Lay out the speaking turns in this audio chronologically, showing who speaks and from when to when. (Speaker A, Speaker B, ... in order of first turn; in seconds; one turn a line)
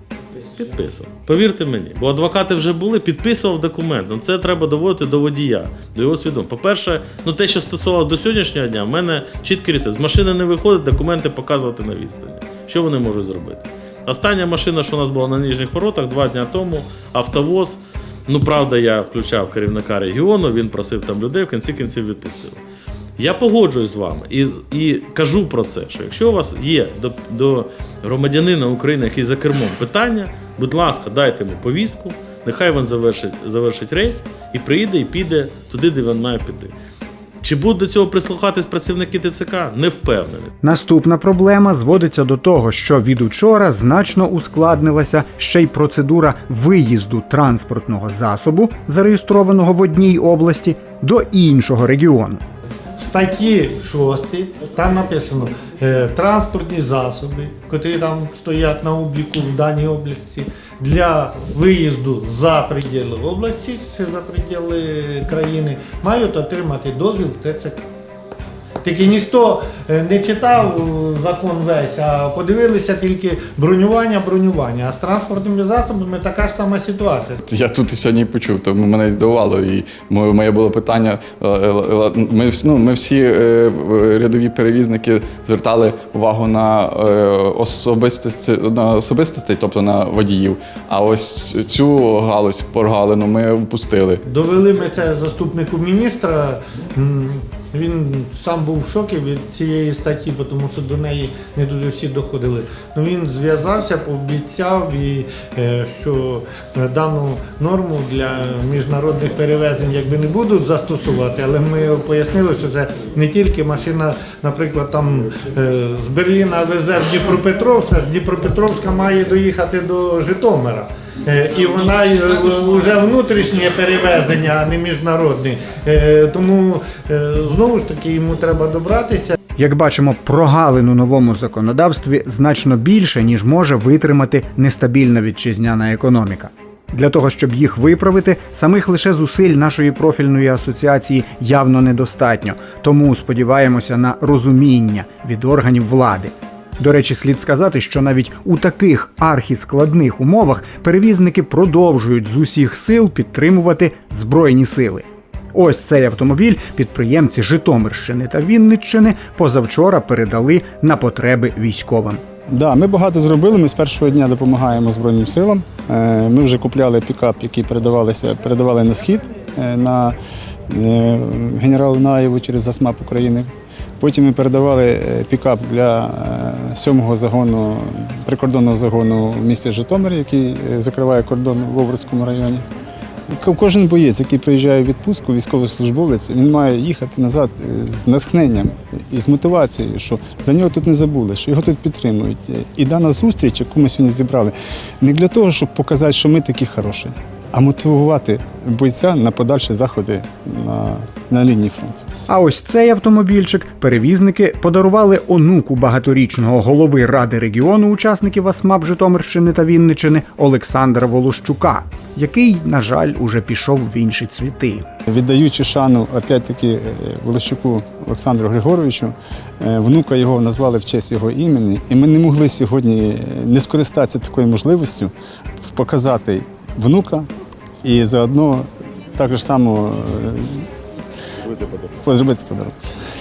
Speaker A: 0.6-22.6
Speaker A: 23.2-36.7
Speaker A: 37.4-40.5
Speaker B: 40.6-52.4
Speaker C: 53.0-67.8
Speaker C: 68.8-77.4
Speaker D: 77.5-94.2
Speaker C: 94.3-129.3
Speaker B: 129.6-162.2
Speaker E: 162.5-170.1
Speaker E: 170.7-173.5
Speaker E: 174.0-182.6
Speaker E: 183.3-202.0
Speaker B: 202.3-214.8
Speaker E: 215.1-225.1
Speaker E: 225.7-227.3
Speaker E: 227.8-230.7
Speaker E: 231.7-232.7